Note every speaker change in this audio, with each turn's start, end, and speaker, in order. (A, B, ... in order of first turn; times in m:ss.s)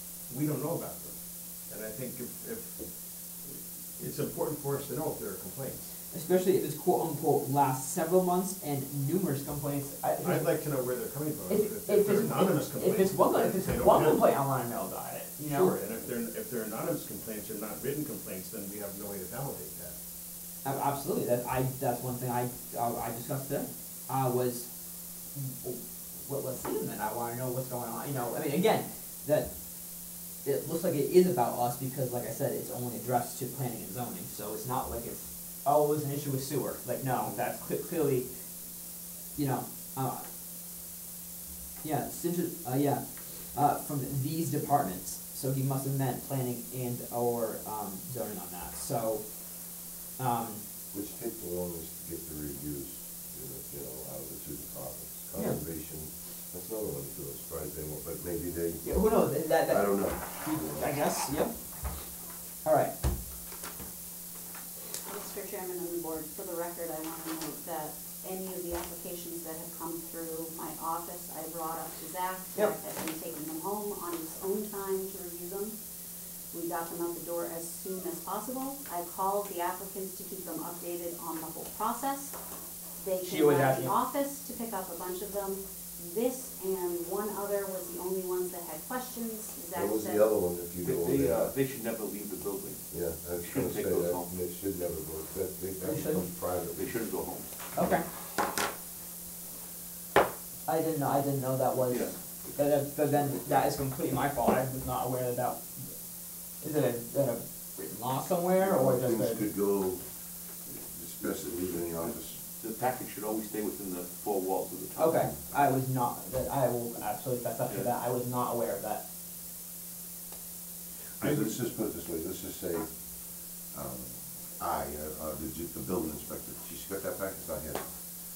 0:00.3-0:02.9 A
0:04.0-0:05.9 A
0:06.1-0:10.5 B
0:10.2-0:14.2 A
0:11.5-0:15.7 B
0:15.4-0:20.0 A
0:20.6-0:24.7 B
0:25.4-0:29.5 B
0:30.4-0:38.3 B
0:39.4-0:40.2 B
0:41.8-0:49.3 B
0:50.2-0:50.6 B
0:50.9-0:59.0 C
0:58.8-1:01.5 B
0:59.6-1:01.0 C
1:02.6-1:02.9 B
1:05.0-1:15.8 D
1:16.5-1:22.4 D
1:23.0-1:30.2 D
1:23.3-1:23.9 B
1:29.7-1:31.5 C
1:30.8-1:32.8 E
1:32.9-1:37.0 C
1:33.4-1:34.3 E
1:35.8-1:36.2 B
1:36.8-1:37.5 E
1:37.7-1:38.0 B
1:40.7-1:45.8 B
1:46.6-1:49.5 B
1:48.6-1:50.0 C
1:50.7-1:52.4 C
1:52.6-1:55.3 E
1:55.0-1:59.0 B
2:01.2-2:02.9 C
2:03.7-2:07.9 C